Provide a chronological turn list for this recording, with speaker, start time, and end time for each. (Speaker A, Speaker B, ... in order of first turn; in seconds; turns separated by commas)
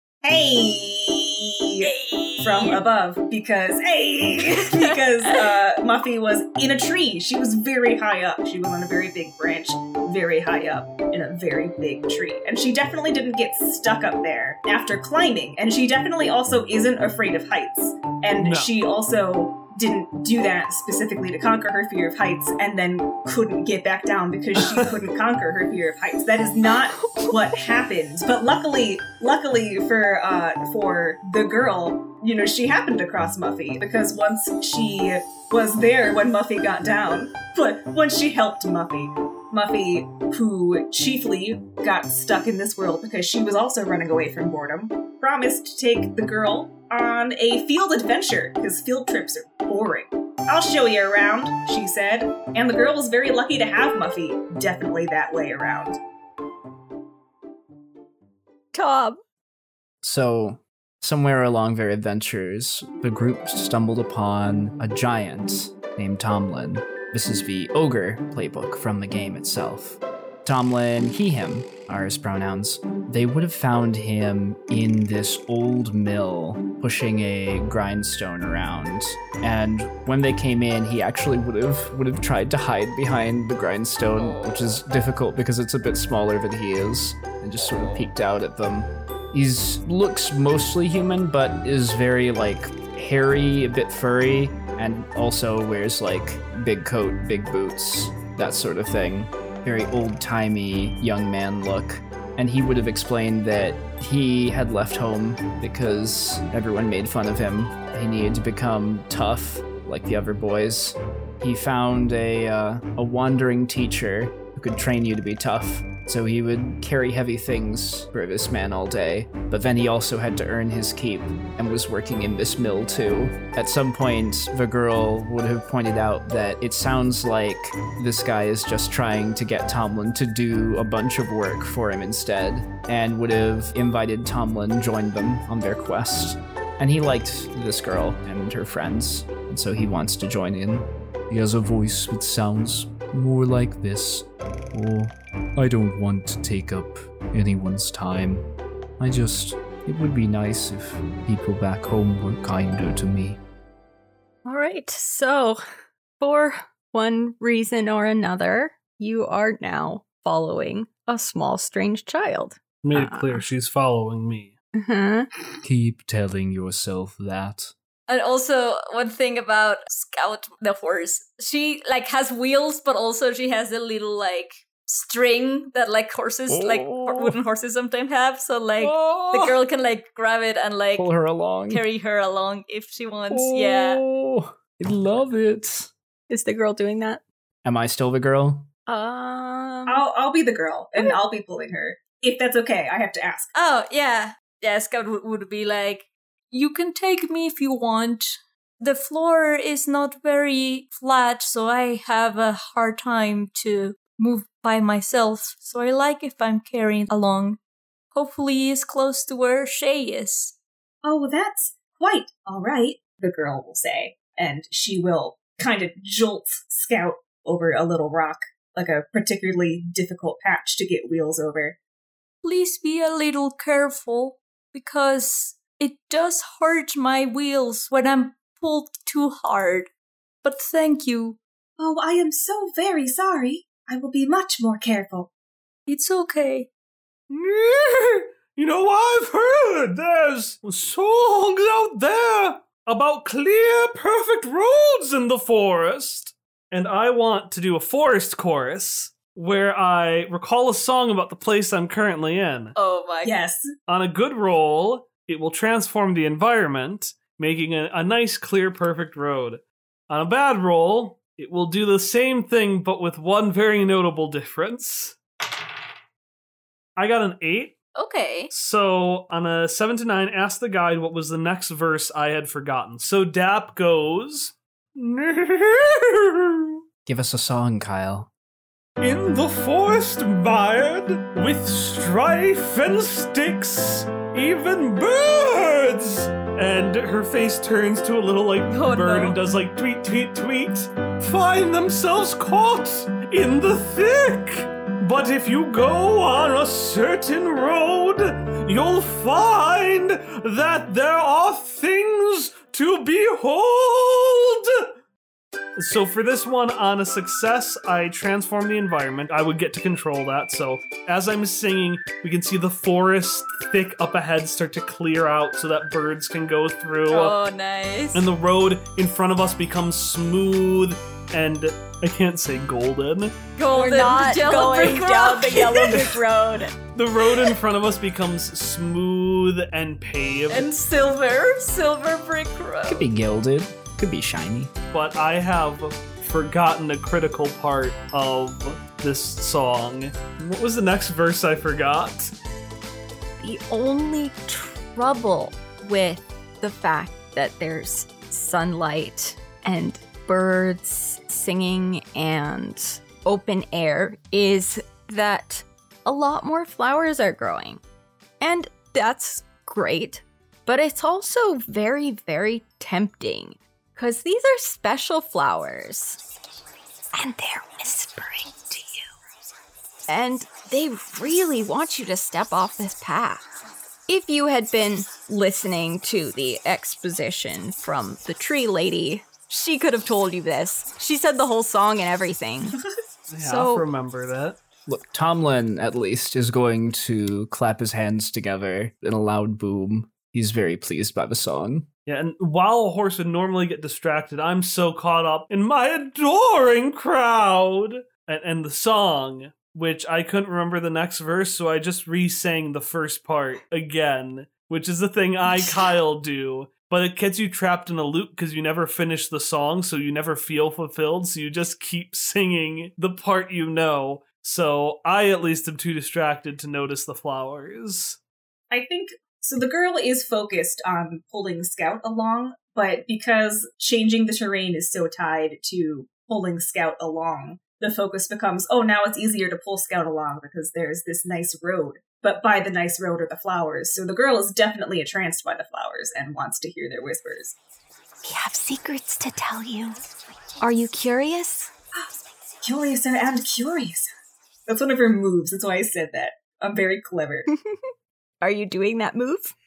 Speaker A: 0.2-56.0, Speaker B: 1.8-2.8, Speaker B: 4.5-5.4, Speaker C: 18.4-18.7, Speaker C: 24.6-24.9, Speaker D: 58.7-59.2, Speaker E: 60.0-148.5, Speaker B: 84.2-84.8, Speaker B: 87.6-88.1, Speaker E: 149.0-153.4, Speaker D: 154.4-155.6, Speaker D: 156.2-163.4, Speaker C: 162.8-164.6, Speaker D: 164.8-165.3, Speaker E: 165.6-167.7, Speaker B: 168.1-181.1, Speaker E: 176.5-177.4, Speaker E: 178.8-179.6, Speaker E: 180.9-181.8, Speaker B: 181.7-184.0, Speaker E: 183.3-185.9, Speaker D: 186.3-187.2, Speaker E: 187.6-188.7, Speaker D: 188.9-190.0, Speaker A: 189.9-193.5, Speaker B: 193.6-207.6, Speaker B: 208.1-210.6, Speaker A: 211.0-221.8, Speaker B: 222.4-229.9, Speaker B: 230.4-231.4, Speaker A: 231.8-235.3, Speaker B: 235.9-236.7, Speaker C: 237.3-252.8, Speaker B: 252.8-253.3, Speaker A: 253.2-253.7, Speaker C: 253.9-265.2, Speaker C: 267.0-267.8, Speaker B: 268.0-268.5, Speaker C: 268.5-276.7, Speaker E: 277.1-278.3, Speaker C: 279.0-304.9, Speaker B: 288.7-289.4, Speaker C: 305.8-317.4, Speaker B: 317.1-318.3, Speaker C: 318.1-323.4, Speaker B: 323.6-326.0, Speaker D: 323.7-326.8, Speaker C: 325.7-326.2, Speaker C: 326.9-330.7, Speaker B: 330.5-333.1, Speaker E: 332.9-334.7, Speaker C: 334.9-342.3, Speaker D: 343.4-357.8, Speaker D: 358.4-366.2, Speaker D: 367.1-369.1, Speaker D: 370.1-373.5, Speaker D: 374.1-382.8, Speaker C: 383.3-384.6, Speaker E: 384.9-391.9, Speaker C: 392.1-418.2, Speaker A: 418.7-437.6, Speaker D: 438.2-440.0, Speaker D: 440.6-441.7, Speaker A: 442.6-444.1, Speaker A: 444.7-447.5, Speaker D: 447.5-447.8, Speaker D: 448.4-449.5